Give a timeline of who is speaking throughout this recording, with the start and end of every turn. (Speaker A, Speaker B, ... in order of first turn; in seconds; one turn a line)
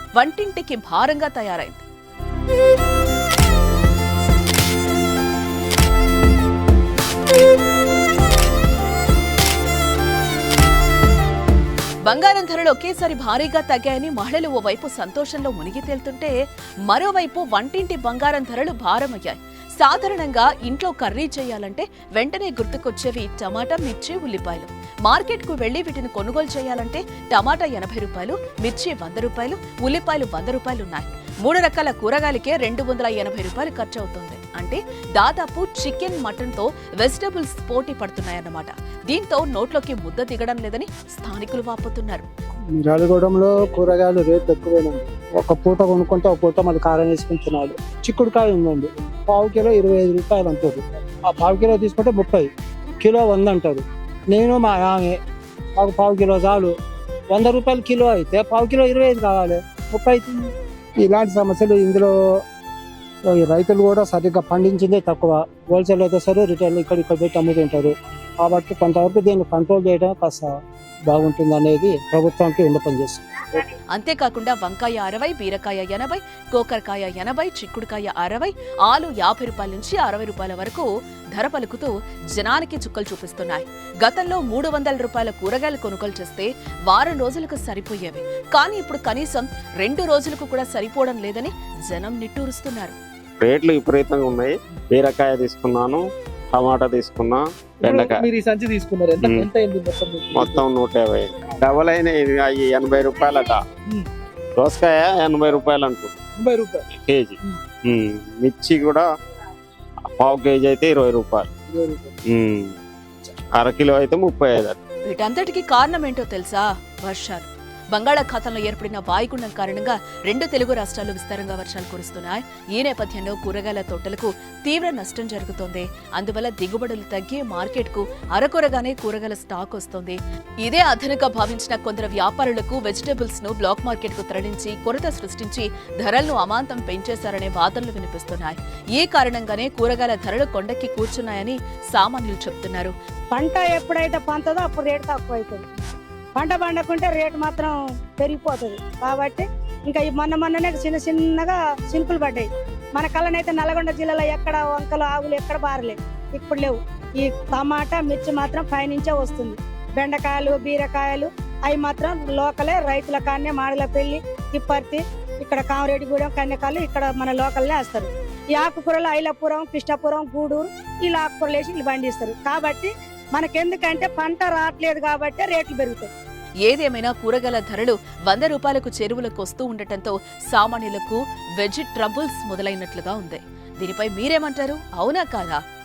Speaker A: 0.2-1.9
Speaker A: 12.0-16.3
Speaker A: 16.9-42.2
Speaker B: 42.7-52.5
Speaker B: 53.0-55.2
Speaker B: 55.8-56.7
Speaker B: 57.3-60.4
Speaker B: 61.0-62.1
Speaker B: 63.3-70.5
Speaker B: 71.1-73.6
Speaker A: 73.9-93.0
Speaker C: 93.4-96.0
Speaker C: 96.5-98.2
Speaker D: 97.8-100.7
Speaker C: 99.2-99.5
Speaker C: 100.3-103.6
Speaker C: 104.6-106.2
Speaker D: 106.4-106.9
Speaker C: 106.9-109.0
Speaker C: 110.1-111.5
Speaker C: 112.3-112.7
Speaker C: 113.6-114.8
Speaker A: 115.1-142.9
Speaker E: 143.3-145.6
Speaker E: 146.3-176.1
Speaker A: 176.6-185.6